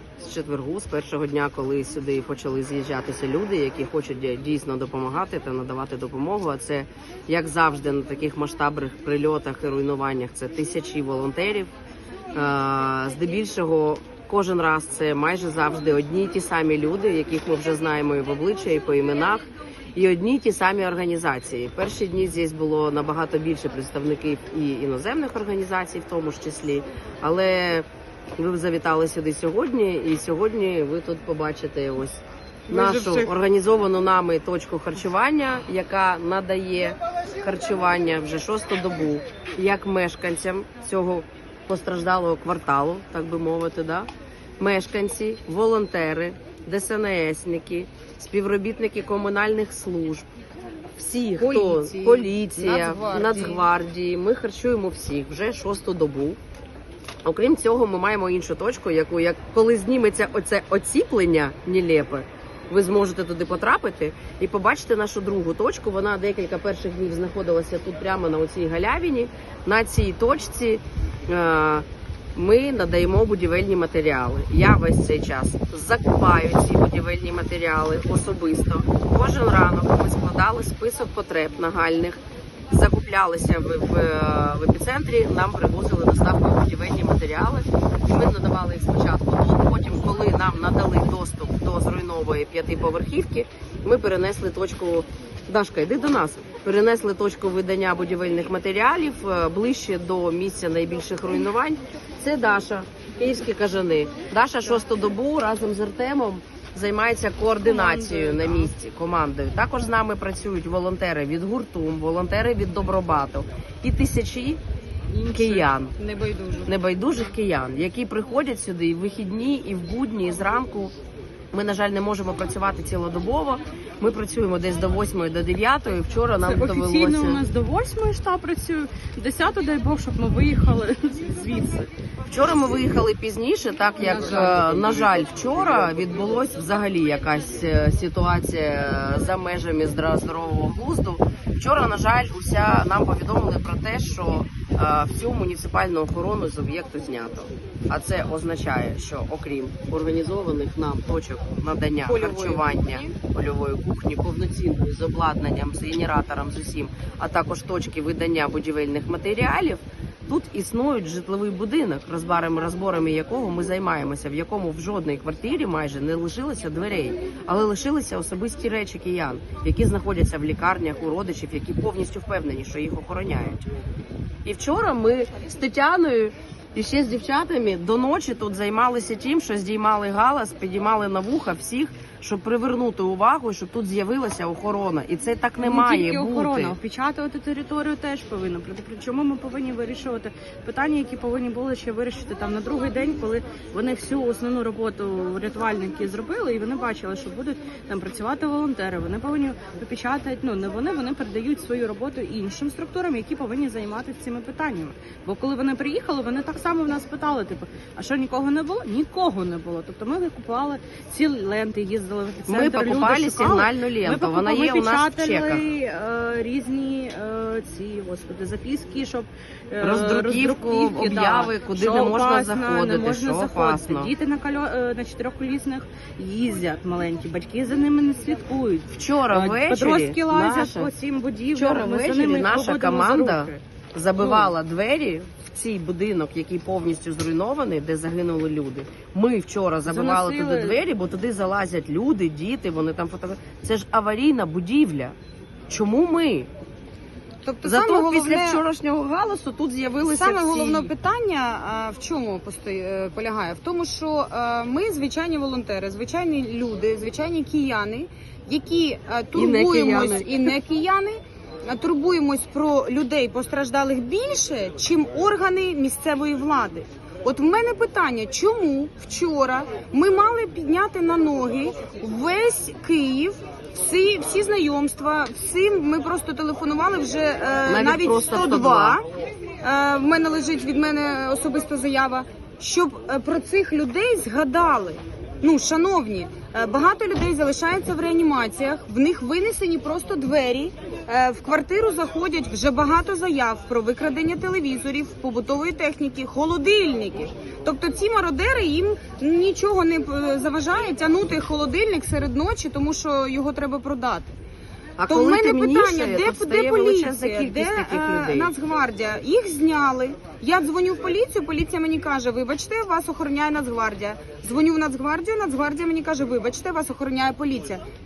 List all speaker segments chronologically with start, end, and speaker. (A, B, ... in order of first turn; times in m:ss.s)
0:00.2-0:11.7 A
0:12.3-0:50.2 A
0:32.7-0:33.3 B
0:51.0-0:56.4 A
0:51.4-0:53.7 B
0:57.2-1:54.6 A
1:47.6-1:48.8 C
1:55.1-1:55.6 C
1:55.3-1:55.9 A
1:56.0-1:56.7 B
1:56.6-2:00.9 A
2:01.5-2:07.4 A
2:06.4-2:11.9 C
2:12.3-2:53.6 A
2:14.0-2:14.7 C
2:32.0-2:33.2 B
2:54.4-3:06.8 A
3:05.6-3:53.5 C
3:32.5-3:35.6 A
3:39.8-3:44.1 A
3:49.0-3:50.9 A
3:51.6-4:05.2 A
3:59.8-4:00.9 C
4:05.7-4:06.5 A
4:07.4-4:08.6 B
4:07.6-4:10.1 A
4:10.0-4:39.1 B
4:19.4-4:20.4 A
4:37.7-4:38.8 A
4:39.6-5:04.3 B
5:05.0-5:08.5 A
5:05.1-5:17.8 B